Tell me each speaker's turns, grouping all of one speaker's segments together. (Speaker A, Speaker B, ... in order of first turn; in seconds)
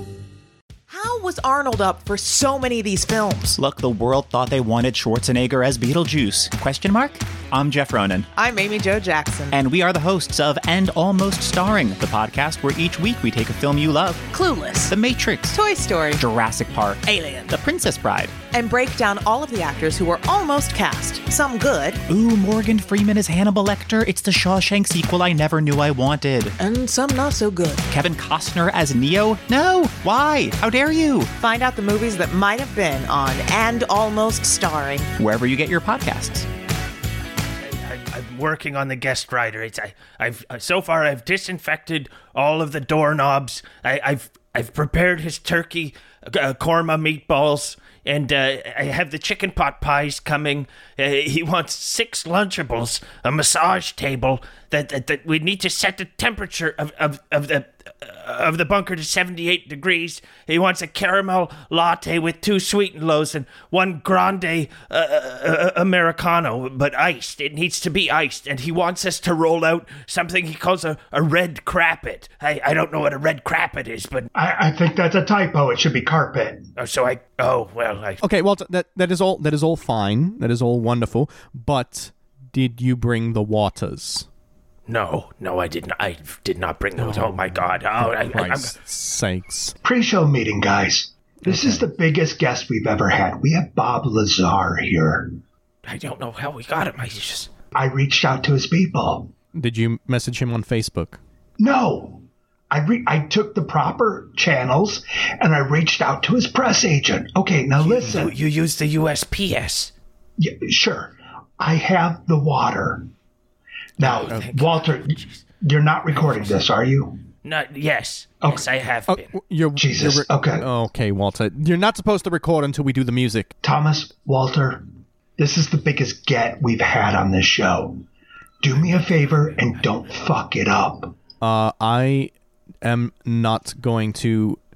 Speaker A: 0.9-3.6, 8.3-9.6, 14.3-15.0, 15.5-16.2, 18.5-22.0, 26.6-27.8, 31.3-35.1
Speaker B: 3.5-8.3, 9.5-14.3, 14.9-15.6, 16.2-18.4, 22.1-26.6, 27.9-31.3, 35.2-36.5
Speaker C: 37.6-74.3, 76.8-78.2, 84.9-88.7, 95.8-97.5, 107.8-109.9, 114.0-115.4, 116.2-116.6, 117.4-119.3
Speaker D: 74.3-76.7, 89.8-95.3, 97.8-99.3, 101.6-108.3, 110.4-113.1, 114.0-117.2, 119.8-120.7, 123.6-124.8, 125.4-128.0, 128.6-131.1
Speaker E: 78.2-84.3, 87.0-89.8, 91.4-91.8, 99.5-101.2, 119.1-123.5, 131.4-132.3, 132.8-134.6